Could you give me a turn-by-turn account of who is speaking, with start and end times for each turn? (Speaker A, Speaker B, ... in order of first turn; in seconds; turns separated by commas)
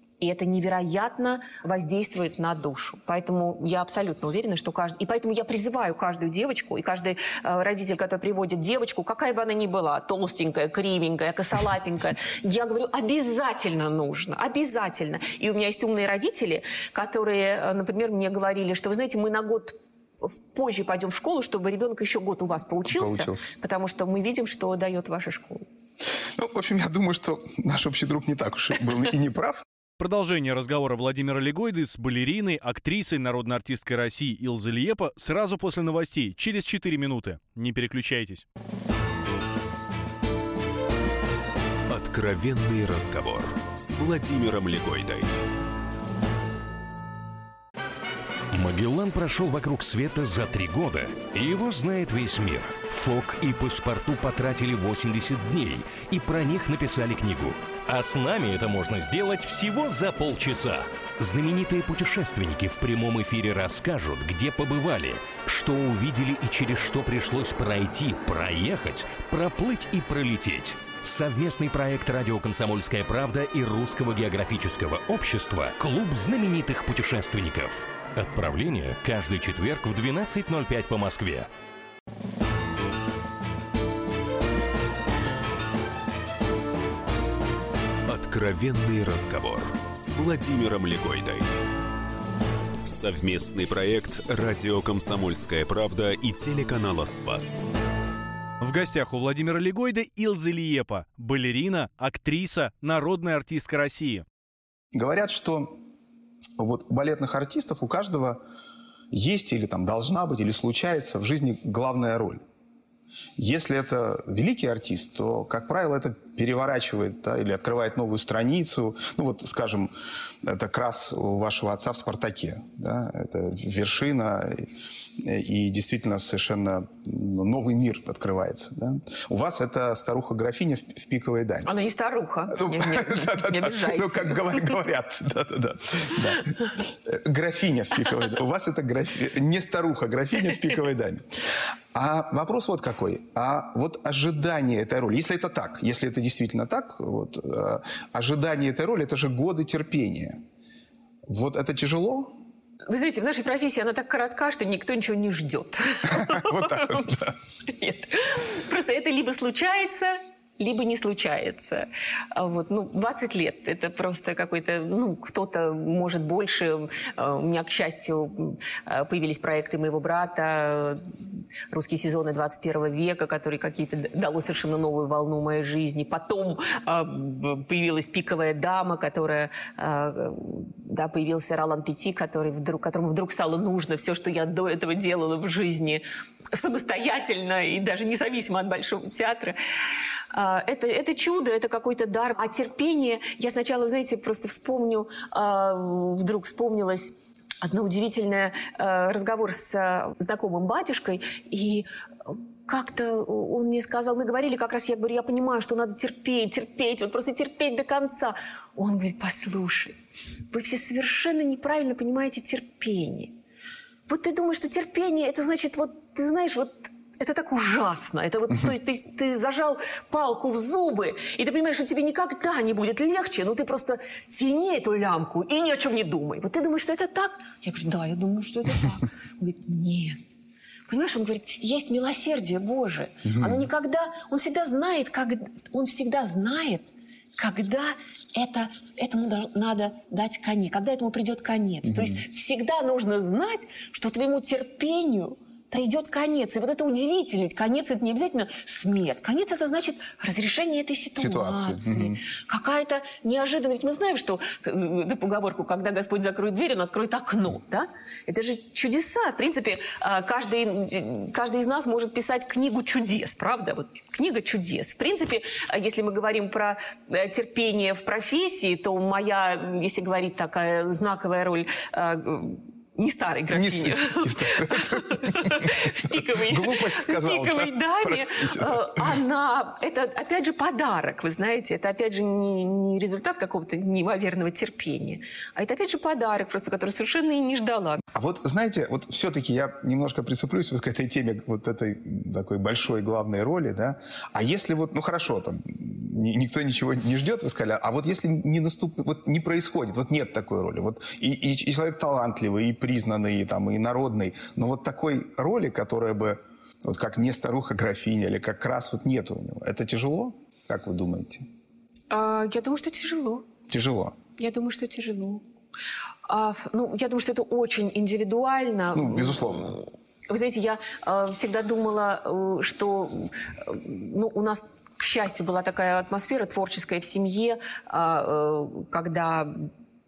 Speaker A: 0.2-25.6, Speaker B: 22.9-23.5, Speaker B: 26.4-29.6, Speaker C: 30.0-38.4, Speaker D: 41.9-45.3, Speaker E: 48.5-81.5, Speaker D: 88.1-91.5, Speaker D: 92.8-97.6, Speaker C: 98.6-104.2, Speaker B: 104.9-105.8, Speaker B: 106.6-108.4, Speaker B: 109.1-112.4, Speaker B: 113.4-119.9, Speaker B: 120.4-131.7, Speaker A: 131.6-134.7, Speaker B: 132.5-141.4, Speaker B: 141.9-150.4, Speaker B: 151.3-152.4, Speaker A: 152.9-171.1, Speaker B: 156.1-157.4, Speaker A: 171.7-189.6, Speaker A: 190.3-209.9, Speaker A: 210.5-213.3, Speaker A: 214.1-230.2, Speaker A: 230.9-288.0, Speaker B: 233.3-233.6, Speaker B: 241.9-242.2, Speaker B: 251.2-252.2, Speaker B: 273.5-279.1, Speaker B: 288.1-311.4, Speaker A: 312.1-313.5, Speaker B: 313.7-314.2, Speaker A: 314.4-315.4, Speaker A: 316.3-329.7, Speaker B: 318.9-319.8